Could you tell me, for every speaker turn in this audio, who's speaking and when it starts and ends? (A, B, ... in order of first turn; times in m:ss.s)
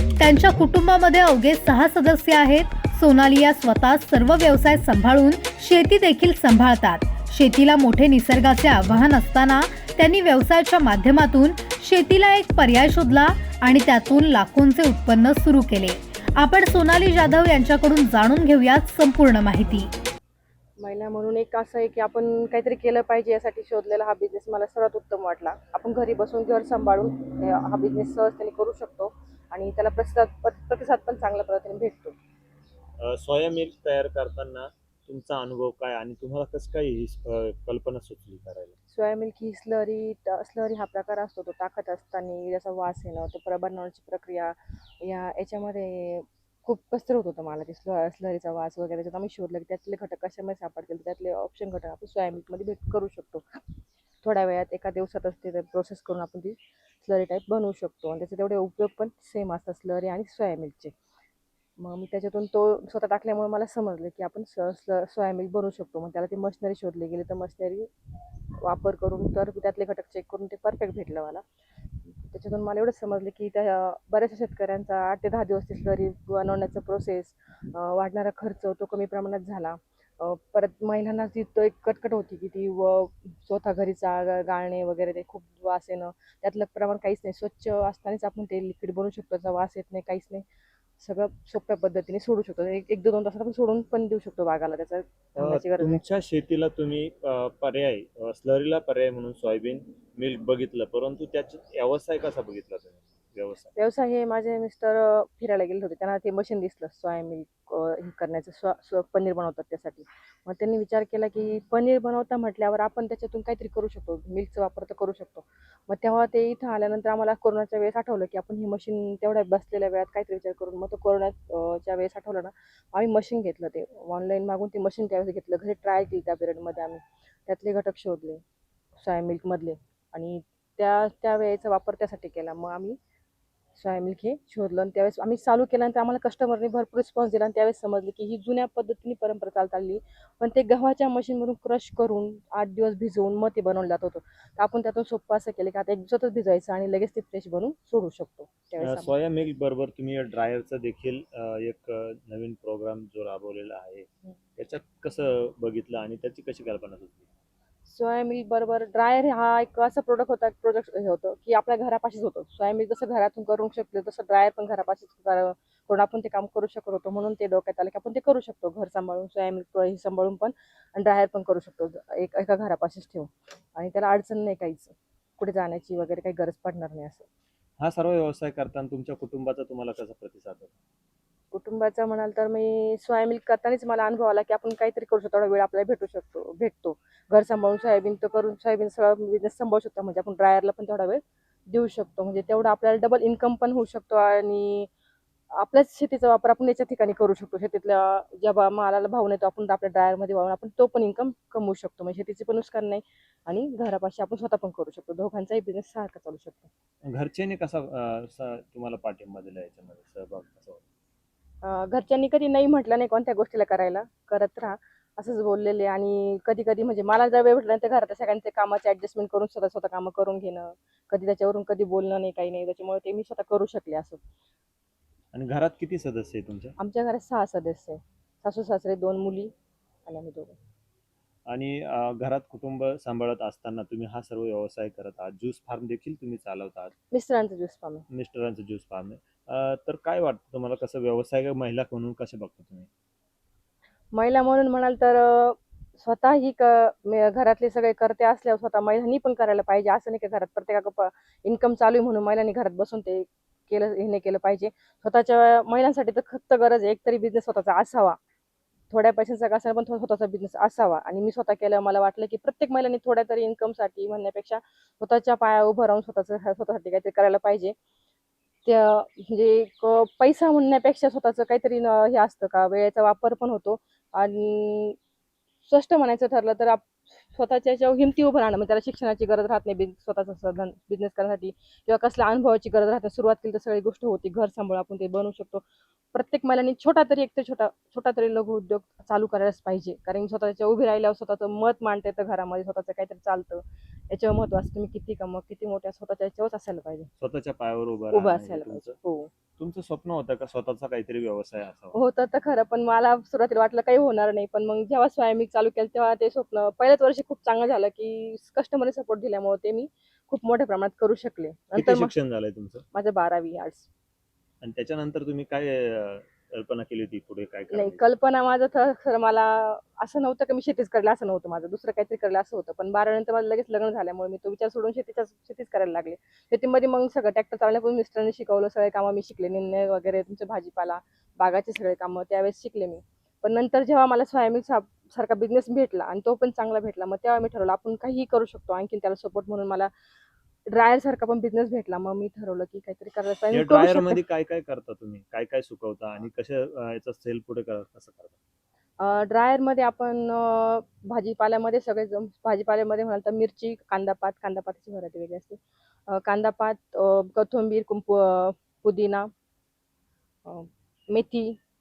0:00.2-0:19.9 A
0:20.8-0:32.2 B
0:33.0-0:38.7 C
0:38.9-0:53.6 B
0:54.2-1:00.9 B
1:01.8-1:07.9 B
1:08.6-1:11.4 B
1:12.1-1:30.4 B
1:31.0-1:36.0 B
1:35.4-1:43.7 C
1:43.7-2:08.4 B
2:09.0-2:13.0 B
2:13.8-2:29.1 B
2:28.8-2:37.2 C
2:37.8-2:57.3 B
2:57.8-3:00.7 C
3:01.5-3:14.9 B
3:15.5-3:26.7 B
3:27.0-3:30.8 C
3:31.6-3:44.2 B
3:45.3-3:46.7 C
3:46.8-3:49.5 B
3:50.0-3:50.6 B
3:51.5-3:56.9 C
3:57.1-3:58.0 B
3:58.1-4:02.9 C
4:04.1-4:18.2 B
4:18.9-4:27.7 B
4:28.6-4:35.0 B
4:35.6-4:57.1 B
4:57.2-4:59.0 C
4:58.1-4:59.3 B
4:59.6-5:02.0 C
5:01.9-5:12.1 B
5:11.7-5:12.8 C
5:12.9-5:13.9 B
5:14.6-5:18.0 C
5:17.7-5:39.9 B
5:40.7-5:44.2 B
5:43.5-5:48.3 C
5:49.0-5:59.3 B
6:00.4-6:01.6 B